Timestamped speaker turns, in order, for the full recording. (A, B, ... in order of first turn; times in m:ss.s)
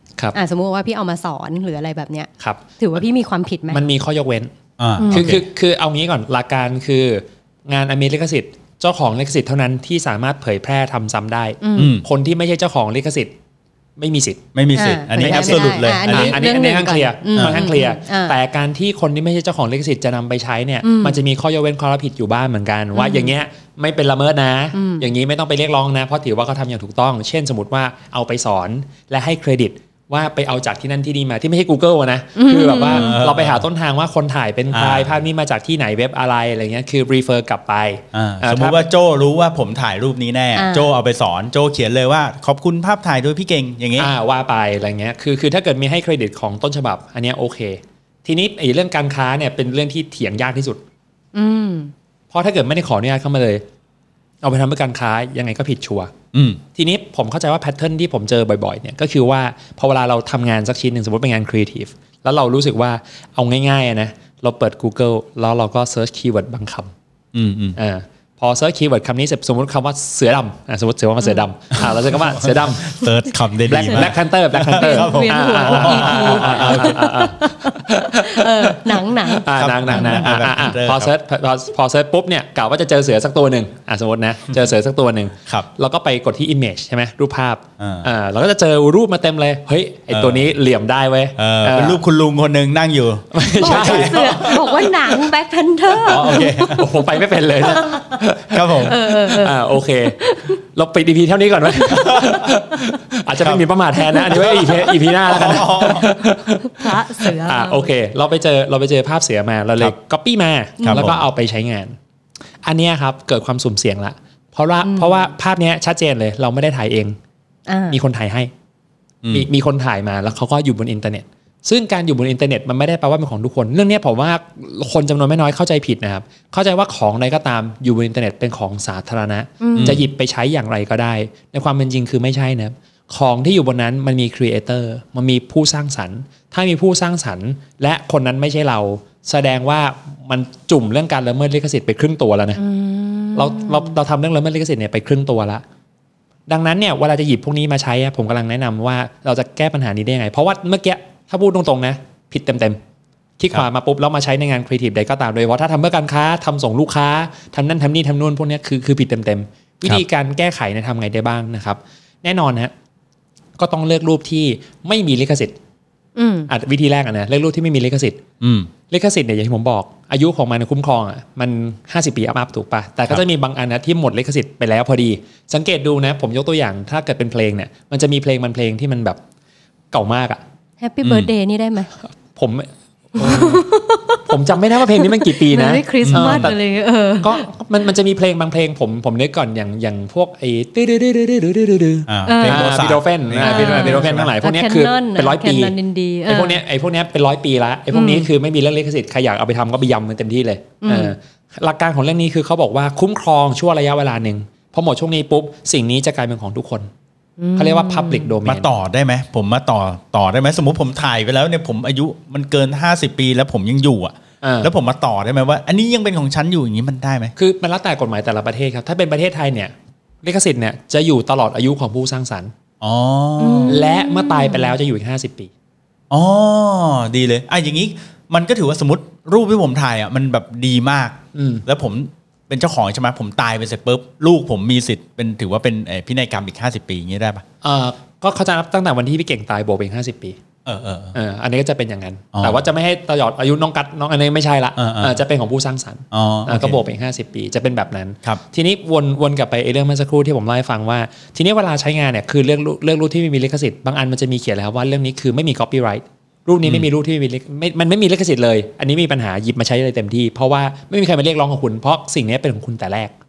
0:00.3-0:03.8 A
0:02.4-0:02.6 B
0:03.7-0:04.5 B
0:04.8-0:05.4 C
0:05.0-0:05.4 A
0:05.1-0:13.3 B
0:11.6-0:12.0 A
0:11.8-0:12.0 C
0:14.0-0:14.4 B
0:14.5-0:16.4 C
0:14.8-0:18.4 A
0:15.2-0:38.8 B
0:17.4-0:17.6 C
0:20.8-0:21.2 A
0:23.0-0:23.3 A
0:24.7-0:25.1 A
0:32.4-0:33.1 A
0:32.9-0:33.6 C
0:34.7-0:35.2 C
0:38.1-0:44.1 C
0:40.6-0:40.9 A
0:44.0-0:50.8 B
0:51.3-0:51.9 A
0:52.3-0:53.6 B
0:54.4-0:56.1 B
0:56.3-0:56.6 C
0:56.7-1:06.9 B
1:07.3-1:07.8 C
1:07.8-1:13.0 B
1:11.8-1:17.2 C
1:13.7-1:32.0 B
1:14.7-1:20.3 A
1:19.5-1:21.1 C
1:27.8-1:28.1 C
1:30.1-1:30.5 C
1:31.4-1:35.3 C
1:33.3-1:34.6 B
1:33.5-1:36.8 A
1:35.9-1:36.9 C
1:36.3-1:52.0 B
1:37.6-1:38.1 A
1:38.5-1:39.0 C
1:38.8-1:40.6 A
1:42.0-1:42.5 C
1:43.4-1:46.1 C
1:46.7-1:47.9 A
1:50.8-1:51.1 A
1:50.8-1:51.2 C
1:52.6-1:57.2 B
1:54.8-1:55.2 A
1:57.7-1:58.0 A
1:57.9-1:58.5 B
1:59.3-2:22.6 B
2:09.6-2:10.0 A
2:09.7-2:10.0 C
2:22.6-2:24.0 A
2:23.4-2:25.6 B
2:26.5-2:32.8 B
2:33.4-2:42.7 B
2:43.6-2:45.6 B
2:46.2-2:46.5 A
2:46.5-2:48.2 B
2:48.4-2:48.7 C
2:48.9-2:59.2 B
2:59.9-3:00.4 B
3:00.8-3:01.9 A
3:01.0-3:01.3 C
3:02.4-3:03.7 B
3:03.2-3:04.4 A
3:04.2-3:06.6 B
3:04.9-3:07.4 A
3:06.0-3:06.5 C
3:07.2-3:15.7 B
3:12.1-3:14.3 C
3:12.2-3:12.8 A
3:13.4-3:16.6 A
3:16.3-3:26.9 B
3:17.9-3:18.3 A
3:20.8-3:21.2 A
3:27.4-3:28.3 A
3:27.6-3:28.7 B
3:28.5-3:37.3 C
3:34.4-3:34.7 B
3:37.4-3:42.5 B
3:42.8-3:43.8 C
3:43.4-3:44.7 A
3:43.7-3:45.5 B
3:46.1-3:57.4 C
3:51.3-3:51.6 B
3:57.6-4:00.4 B
4:00.6-4:01.2 C
4:01.1-4:23.1 B
4:02.3-4:02.6 C
4:04.8-4:05.2 C
4:06.1-4:06.8 C